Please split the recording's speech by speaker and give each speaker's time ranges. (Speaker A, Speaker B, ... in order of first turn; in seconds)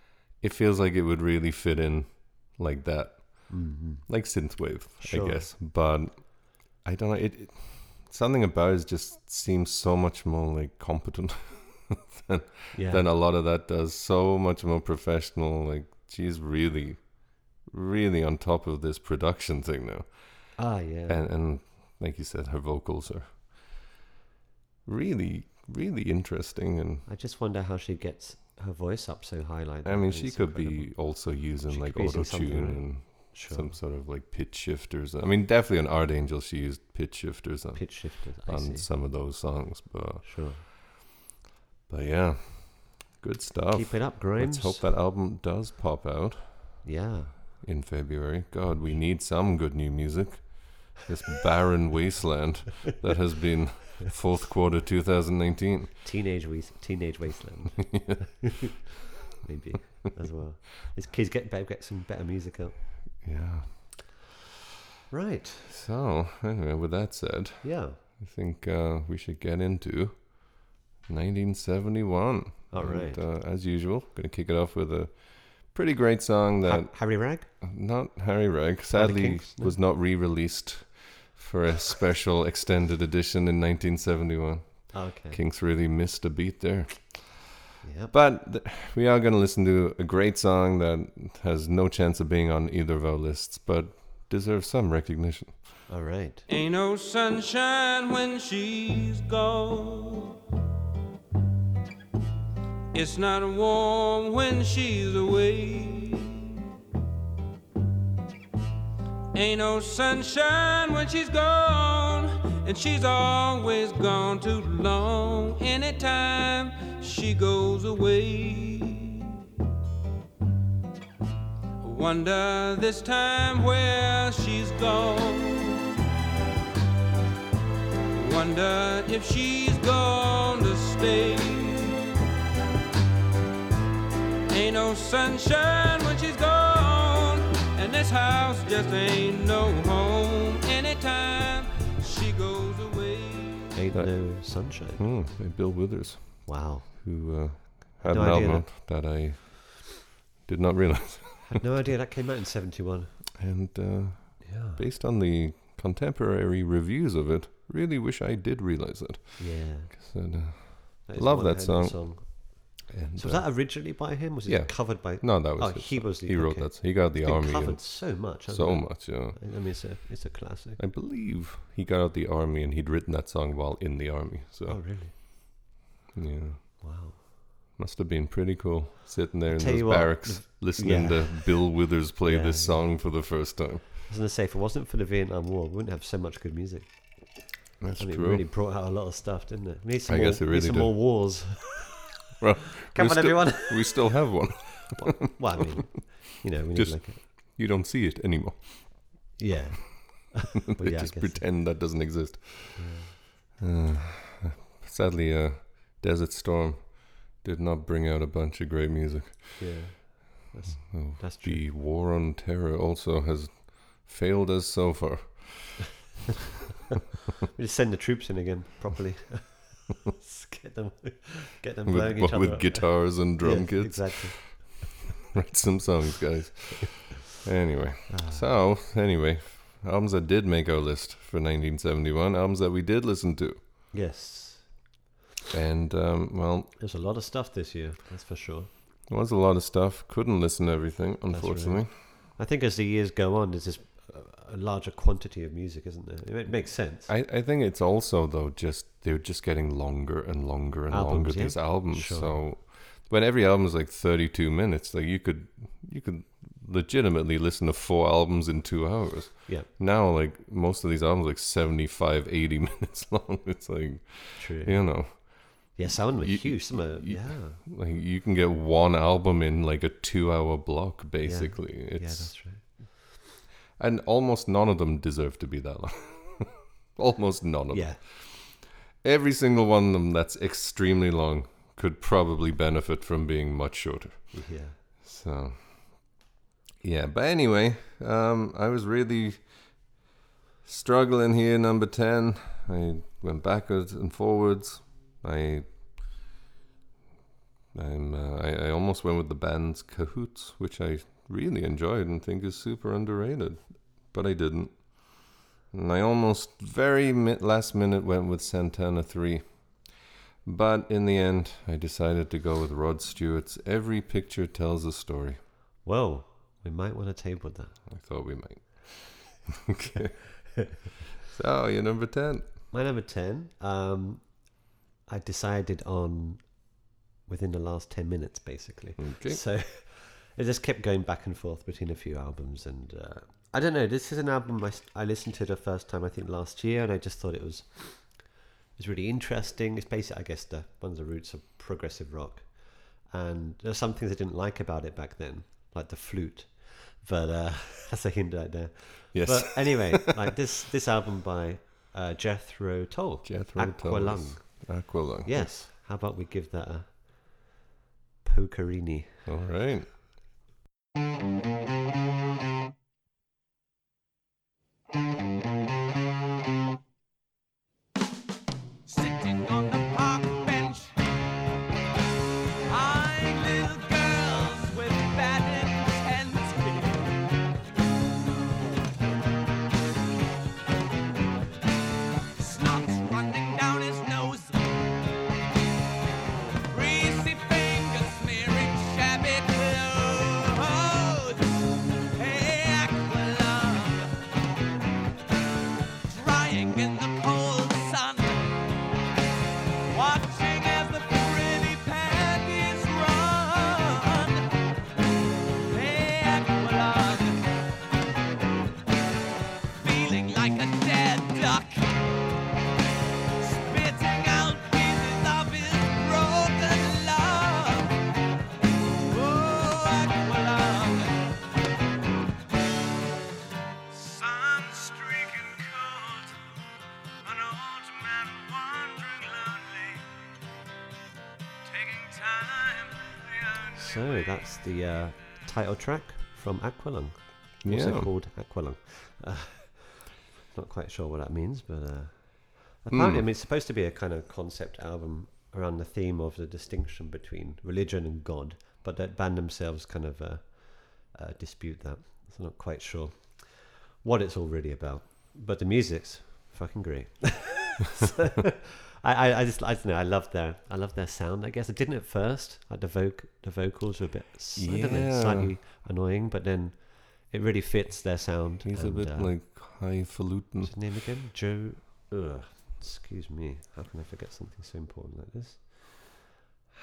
Speaker A: 0.4-23.8, 24.9-27.1, 29.8-40.7, 41.9-46.9, 47.6-56.0, 57.9-58.2, 63.2-64.2, 65.7-87.5, 88.1-95.9, 143.9-151.6, 153.4-169.4, 170.8-175.4, 176.1-176.8, 177.8-183.9, 187.8-188.5, 190.1-191.5, 192.4-196.1, 196.7-199.4, 200.8-203.0, 203.6-210.0, 210.9-215.9, 221.9-224.8, 225.3-233.6, 235.5-236.8, 239.1-241.9, 247.0-272.4, 273.8-284.4, 285.0-286.2, 286.8-289.9, 290.6-296.0, 297.7-315.4, 317.9-322.5, 329.0-329.4, 349.1-350.4, 353.2-355.6, 359.3-359.9, 437.6-438.1, 442.9-443.3, 464.6-465.5, 468.6-470.8
Speaker B: 3.5-4.1, 5.0-5.5, 12.7-13.1, 20.6-21.2, 27.1-33.8, 37.8-38.9, 40.2-40.6, 43.7-44.9, 46.8-47.4, 56.0-58.7, 59.4-62.8, 65.1-65.7, 67.6-68.0, 72.7-73.2, 76.7-77.5, 78.9-79.8, 84.9-85.4, 87.8-88.1, 95.9-96.4, 143.8-145.0, 146.5-148.7, 151.5-153.3, 154.4-154.8, 159.4-160.3, 161.1-170.8, 174.7-175.6, 176.8-177.2, 179.5-183.0, 184.1-192.0, 192.9-197.2, 199.4-201.8, 202.8-203.2, 209.6-211.6, 217.5-224.8, 228.1-228.6, 233.9-234.9, 236.8-238.7, 241.3-247.1, 250.9-252.4, 264.4-267.6, 271.2-273.0, 277.7-278.0, 284.3-284.8, 315.8-317.8, 322.7-324.5, 325.1-357.5, 358.2-359.2, 433.7-469.3, 470.6-476.3
Speaker C: 96.5-100.3, 102.9-106.5, 109.3-119.3, 121.8-125.9, 128.1-132.0, 134.5-143.7
Speaker D: 368.9-370.9, 372.7-377.0, 382.4-384.6, 386.7-391.4, 392.2-394.1, 396.1-398.4, 399.9-404.4, 405.7-407.4, 409.8-411.8, 413.4-417.9, 419.1-421.1, 423.9-426.3, 427.2-430.0, 431.7-432.8